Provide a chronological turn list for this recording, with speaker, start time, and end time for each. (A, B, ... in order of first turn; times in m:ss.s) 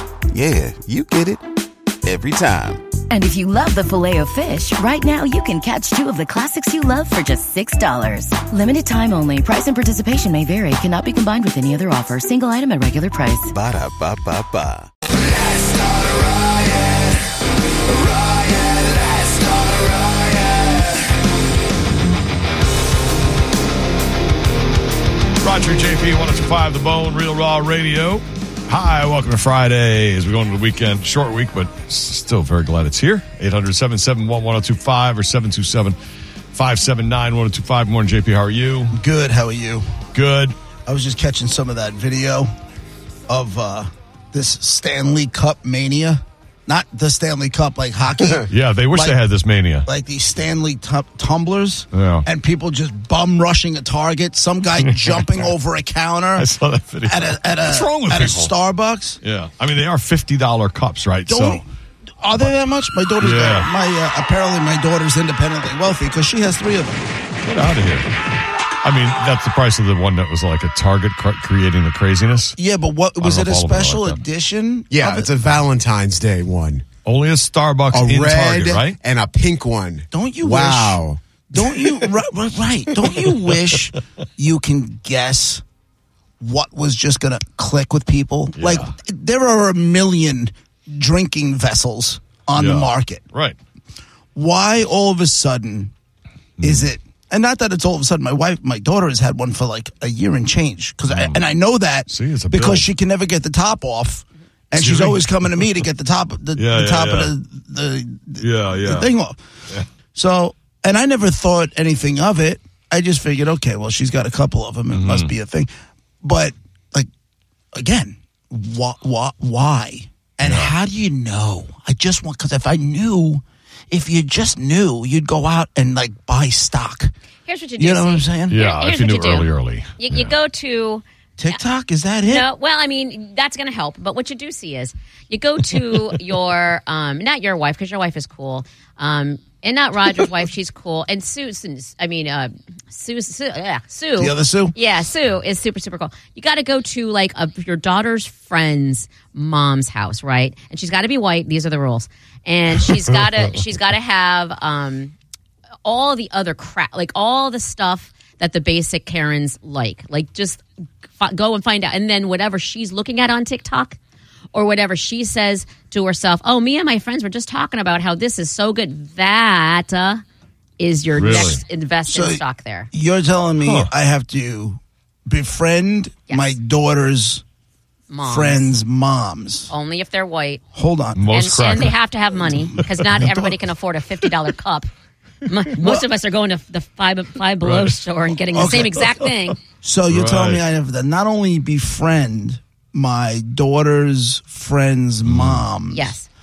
0:00.3-0:01.4 A
0:02.0-0:02.9 A
0:03.1-0:13.5 B
0:13.5-0:14.9 A
0:25.4-0:36.0 C
0:36.5-0:39.0 C
0:38.9-0:39.9 D
0:40.1-0:40.6 C
0:40.9-0:42.5 D
0:43.3-0:49.2 D
0:48.5-0:49.9 C
0:49.9-0:56.5 D
0:51.9-0:52.3 C
0:54.8-0:55.5 C
0:56.4-0:58.5 C
0:57.1-0:59.2 D
0:59.2-1:01.6 C
1:01.3-1:01.6 D
1:02.2-1:07.1 D
1:03.2-1:03.7 C
1:07.4-1:08.1 C
1:08.8-1:12.6 C
1:12.6-1:15.3 D
1:13.2-1:14.2 C
1:14.9-1:16.9 E
1:17.0-1:19.0 C
1:17.9-1:21.7 E
1:20.1-1:21.0 D
1:21.5-1:25.6 D
1:26.4-1:33.2 D
1:28.6-1:28.9 C
1:32.6-1:33.6 C
1:34.4-1:35.9 D
1:36.6-1:36.9 C
1:36.6-1:49.4 D
1:41.1-1:41.4 C
1:42.1-1:42.9 C
1:44.8-1:45.8 C
1:46.6-1:47.3 C
1:48.4-1:49.1 C
1:50.2-1:55.7 D
1:54.9-1:55.3 C
1:56.2-1:57.1 D
1:57.8-2:07.1 D
2:00.4-2:00.7 C
2:07.5-2:11.6 F
2:07.8-2:08.6 D
2:08.5-2:10.3 C
2:11.4-2:12.5 D
2:12.2-2:35.1 F
2:24.2-2:24.8 D
2:35.8-2:40.6 F
2:41.2-2:44.0 F
2:44.5-2:50.2 F
2:50.8-2:52.9 F
2:51.2-2:51.6 C
2:52.1-2:57.4 D
2:53.6-2:53.9 C
2:58.1-2:58.7 F
2:58.2-2:59.7 D
2:59.7-3:00.6 F
3:00.7-3:01.3 D
3:01.2-3:01.9 C
3:01.3-3:04.9 F
3:05.5-3:09.6 F
3:05.8-3:06.1 D
3:07.6-3:08.0 C
3:08.5-3:09.2 D
3:09.8-3:16.1 D
3:10.1-3:10.6 C
3:15.3-3:15.6 C
3:15.9-3:16.3 F